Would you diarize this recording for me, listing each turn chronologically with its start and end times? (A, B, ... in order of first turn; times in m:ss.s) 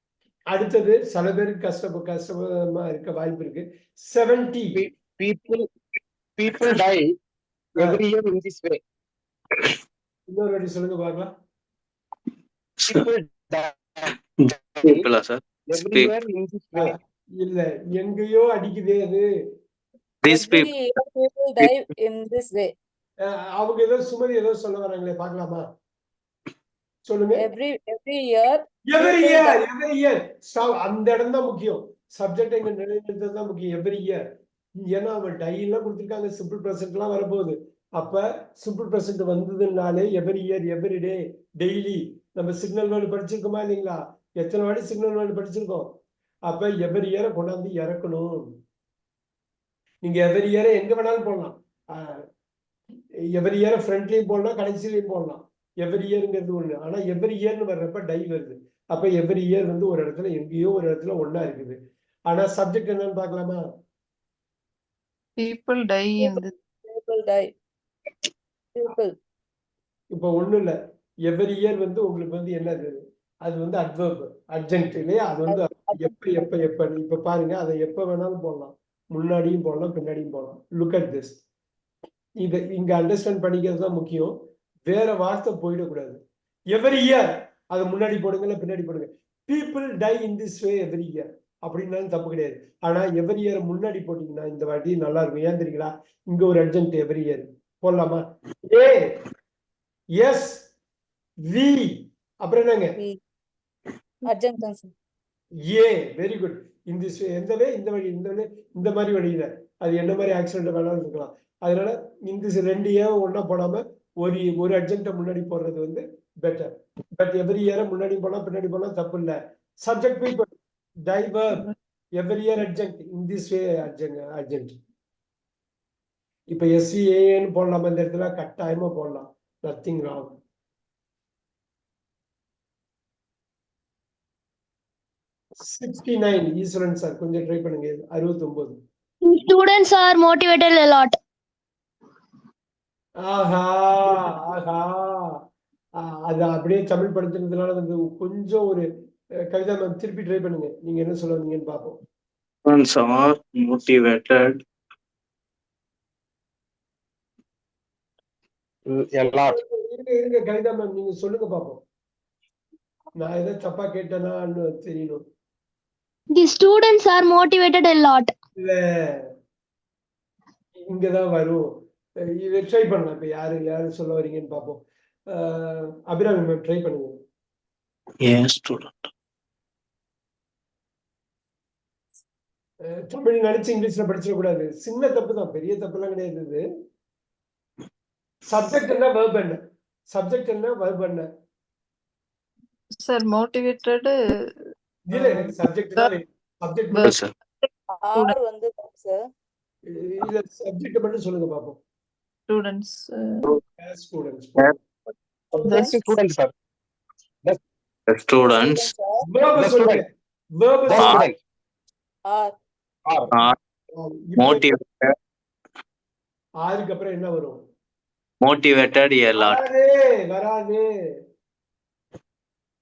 0:00.5-0:04.8 A
0:04.7-0:05.6 B
0:06.4-0:07.1 B
0:07.8-0:08.8 B
0:10.3-0:11.3 A
0:12.8-0:15.0 B
0:14.8-0:16.1 C
0:15.7-0:16.9 B
0:16.7-0:19.2 A
0:20.2-0:20.7 C
0:20.2-0:22.7 D
0:23.2-0:25.6 A
0:27.0-0:27.5 A
0:27.3-0:29.6 D
0:28.9-0:34.2 A
0:34.8-0:45.9 A
0:46.4-0:48.5 A
0:50.0-0:52.2 A
0:53.4-1:03.6 A
1:05.4-1:06.5 E
1:06.2-1:07.5 D
1:08.7-1:09.1 D
1:10.1-1:10.7 A
1:11.3-1:21.4 A
1:15.5-1:16.5 D
1:22.4-1:24.4 A
1:24.9-1:26.2 A
1:26.7-1:39.2 A
1:40.2-1:40.7 A
1:41.5-1:43.0 A
1:44.3-1:44.9 D
1:45.7-2:00.5 A
2:01.1-2:01.6 A
2:02.2-2:04.8 A
2:06.5-2:10.4 A
2:15.6-2:18.8 A
2:19.2-2:21.1 F
2:23.2-2:25.4 A
2:26.0-2:28.9 A
2:29.5-2:32.0 A
2:32.6-2:34.6 C
2:38.9-2:39.6 B
2:39.5-2:41.8 A
2:43.2-2:45.2 A
2:46.3-2:48.3 F
2:48.6-2:49.3 A
2:50.9-2:51.7 A
2:52.3-2:57.1 A
2:58.2-2:59.1 C
3:02.8-3:06.6 A
3:08.4-3:09.6 A
3:10.1-3:11.3 A
3:13.0-3:14.1 E
3:15.1-3:17.1 A
3:15.1-3:16.1 E
3:16.9-3:18.3 E
3:17.0-3:17.3 C
3:18.0-3:19.3 D
3:19.9-3:21.8 A
3:22.5-3:23.5 E
3:23.8-3:24.7 A
3:25.5-3:26.5 B
3:25.6-3:26.2 E
3:28.1-3:28.8 C
3:28.4-3:29.2 D
3:29.2-3:30.0 A
3:29.6-3:30.0 B
3:30.6-3:31.3 A
3:30.9-3:31.4 B
3:32.2-3:32.5 D
3:33.0-3:33.4 B
3:34.0-3:34.7 A
3:34.4-3:35.1 C
3:36.6-3:37.6 A
3:38.4-3:39.5 C
3:39.4-3:40.9 A